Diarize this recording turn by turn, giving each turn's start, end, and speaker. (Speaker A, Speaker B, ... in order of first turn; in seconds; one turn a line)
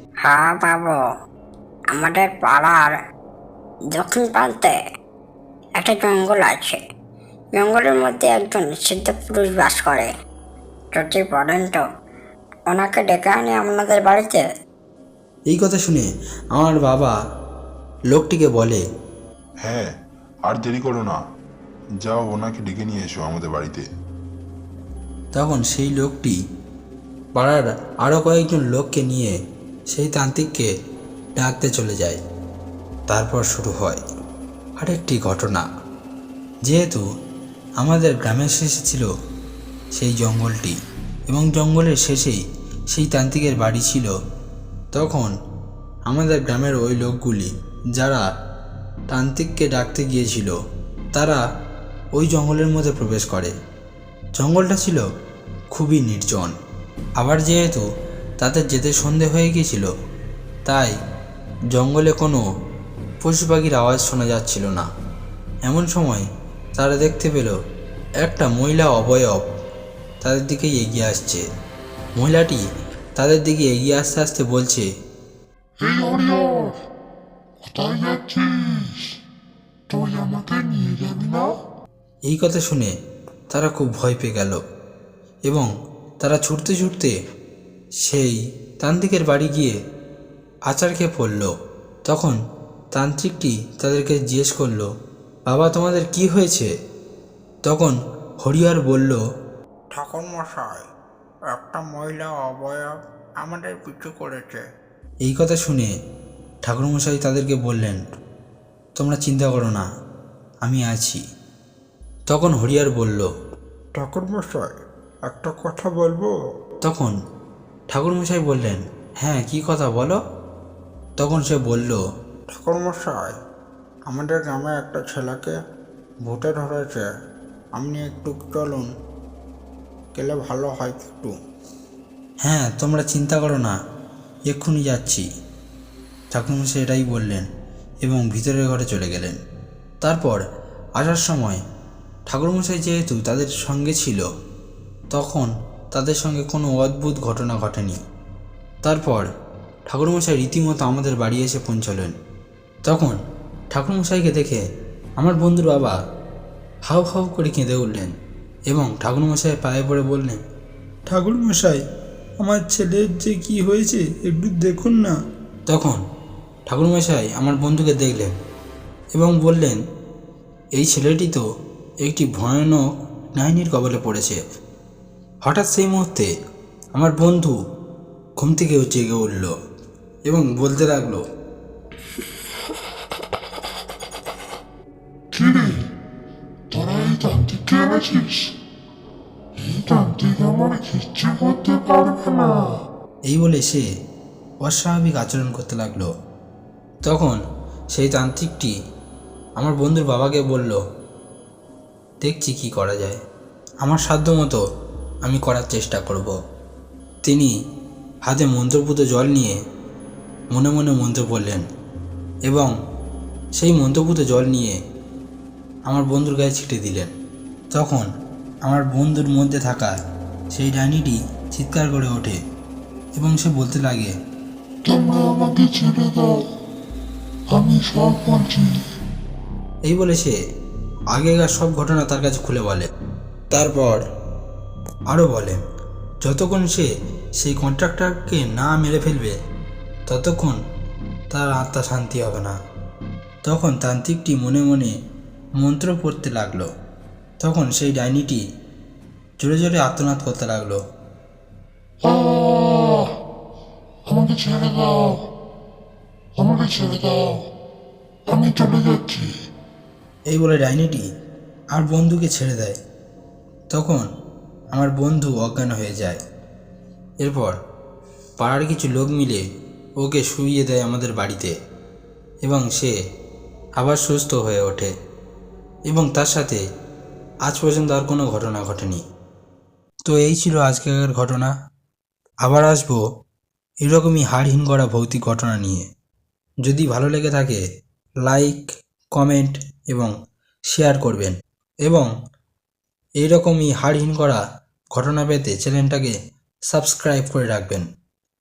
Speaker A: 0.2-1.0
Speaker A: 1.9-3.0
Speaker A: 4.0-4.8
Speaker A: 5.8-6.8
Speaker A: 7.5-10.1
Speaker A: 10.9-11.8
Speaker A: 12.7-14.5
Speaker B: 15.5-17.2
Speaker B: 18.1-18.8
Speaker C: 19.6-19.9
Speaker C: 20.4-21.2
Speaker C: 22.0-23.9
Speaker B: 25.3-26.4
Speaker B: 27.4-29.4
Speaker B: 29.9-30.7
Speaker B: 31.4-32.2
Speaker B: 33.1-34.0
Speaker B: 34.8-35.7
Speaker B: 36.6-37.0
Speaker B: 37.8-39.1
Speaker B: 40.0-40.8
Speaker B: 41.3-44.1
Speaker B: 44.9-45.3
Speaker B: 46.1-48.2
Speaker B: 49.1-50.6
Speaker B: 51.1-51.4
Speaker B: 52.2-53.5
Speaker B: 54.4-55.0
Speaker B: 55.7-56.5
Speaker B: 57.2-57.8
Speaker B: 58.4-59.9
Speaker B: 60.7-60.9
Speaker B: 61.7-62.4
Speaker B: 63.2-64.9
Speaker B: 65.7-66.2
Speaker B: 66.8-67.6
Speaker B: 68.2-69.4
Speaker B: 70.2-71.4
Speaker B: 72.2-72.6
Speaker B: 73.2-74.9
Speaker D: 75.8-76.8
Speaker D: 77.6-79.1
Speaker D: 79.9-81.5
Speaker B: 82.3-82.9
Speaker B: 83.5-84.6
Speaker B: 86.2-87.1
Speaker B: 88.0-89.8
Speaker B: 90.7-91.5
Speaker B: 92.1-92.4
Speaker B: 93.0-94.9
Speaker B: 95.5-96.7
Speaker B: 97.7-99.2
Speaker E: 100.0-100.8
Speaker E: 101.6-102.9
Speaker E: 103.5-104.1
Speaker B: 105.2-105.9
Speaker B: 106.7-108.0
Speaker B: 109.0-109.9
Speaker B: 110.6-111.2
Speaker B: 112.3-113.3
Speaker E: 114.0-114.6
Speaker E: 115.5-116.2
Speaker B: 116.8-117.1
Speaker B: 117.9-120.2
Speaker B: 121.2-122.0
Speaker E: 124.2-124.7
Speaker B: 132.4-133.8
Speaker B: 134.5-135.2
Speaker B: 136.3-137.4
Speaker B: 138.0-139.4
Speaker B: 140.0-140.4
Speaker B: 141.0-141.6
Speaker B: 142.3-144.2
Speaker B: 145.1-148.0
Speaker B: 148.8-149.3
Speaker B: 149.9-152.1
Speaker B: 152.9-153.2
Speaker B: 153.7-154.6
Speaker B: 155.2-156.0
Speaker B: 156.9-158.1
Speaker B: 158.7-160.4
Speaker B: 161.1-161.8
Speaker B: 162.4-165.2
Speaker B: 165.7-166.0
Speaker B: 166.7-168.3
Speaker B: 169.2-169.8
Speaker B: 170.8-171.4
Speaker B: 172.0-172.8
Speaker B: 173.4-174.4
Speaker B: 175.4-176.3
Speaker B: 177.0-177.5
Speaker B: 178.4-179.5
Speaker B: 180.3-181.2
Speaker D: 185.3-185.8
Speaker D: 186.7-188.5
Speaker D: 189.6-192.7
Speaker B: 193.3-193.8
Speaker B: 194.7-196.1
Speaker B: 197.1-197.4
Speaker B: 197.9-198.7
Speaker B: 199.6-200.8
Speaker B: 202.2-203.2
Speaker B: 203.8-204.6
Speaker B: 205.2-206.3
Speaker B: 207.2-207.5
Speaker B: 208.3-209.6
Speaker B: 210.5-211.6
Speaker B: 212.5-212.7
Speaker B: 213.6-214.8
Speaker B: 215.9-217.1
Speaker B: 217.7-218.1
Speaker B: 218.7-219.9
Speaker B: 220.6-222.4
Speaker B: 223.2-224.1
Speaker D: 224.8-226.4
Speaker D: 227.5-228.8
Speaker B: 229.9-230.4
Speaker B: 231.1-232.9
Speaker B: 233.5-234.0
Speaker B: 235.1-235.6
Speaker B: 236.2-236.9
Speaker B: 237.4-239.3
Speaker B: 240.1-240.6
Speaker B: 241.3-242.6
Speaker B: 243.5-244.9
Speaker B: 245.6-246.7
Speaker B: 247.4-248.4
Speaker B: 249.4-250.8
Speaker D: 252.0-253.1
Speaker D: 254.1-255.2
Speaker D: 256.4-257.4
Speaker D: 258.3-259.4
Speaker B: 260.3-261.1
Speaker B: 261.7-262.8
Speaker B: 263.7-264.1
Speaker B: 264.7-266.2
Speaker B: 267.2-267.6
Speaker B: 268.4-269.4
Speaker B: 270.0-271.5
Speaker B: 272.4-273.0
Speaker B: 273.8-274.9
Speaker B: 275.9-276.6
Speaker B: 277.5-279.0
Speaker B: 280.1-281.5
Speaker B: 282.4-283.0
Speaker B: 283.8-285.9
Speaker B: 286.6-287.6
Speaker B: 288.2-288.6
Speaker B: 289.1-290.1
Speaker B: 290.7-291.3
Speaker B: 293.2-294.4
Speaker B: 294.9-296.1
Speaker B: 296.7-297.8